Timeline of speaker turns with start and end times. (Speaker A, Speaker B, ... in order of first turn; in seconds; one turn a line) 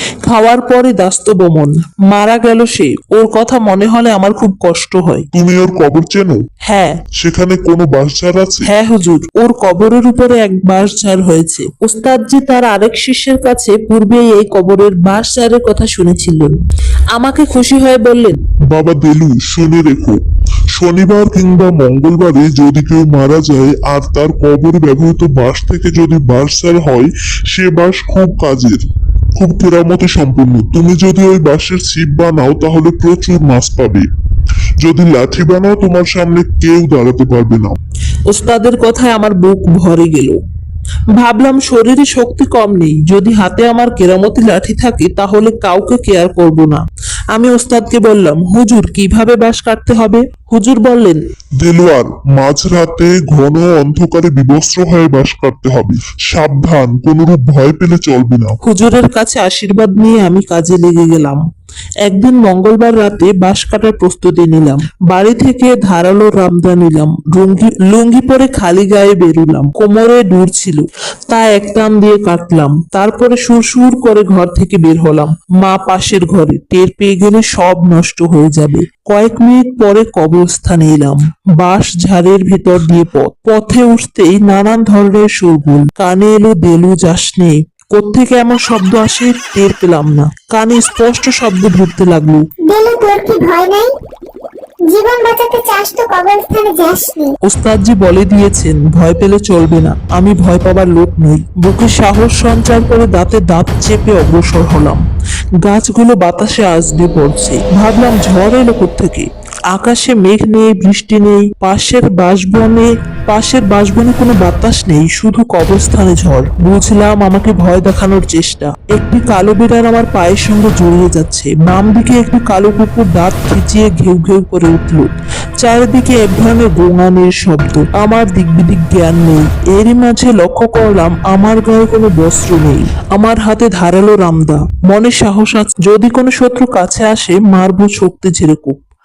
Speaker A: 0.2-5.3
Speaker B: 5.3-6.4
Speaker A: 6.7-7.0
Speaker B: 7.2-8.7
Speaker A: 8.7-16.6
Speaker A: 17.1-18.4
Speaker B: 18.7-20.2
Speaker B: 20.8-28.8
Speaker B: 29.4-34.1
Speaker B: 34.8-37.8
Speaker A: 38.3-40.4
Speaker A: 41.1-51.2
Speaker B: 51.6-58.6
Speaker A: 58.6-61.4
Speaker A: 62.0-92.5
Speaker C: 92.7-93.9
Speaker C: 94.8-97.3
Speaker A: 97.4-105.0
Speaker A: 105.6-138.8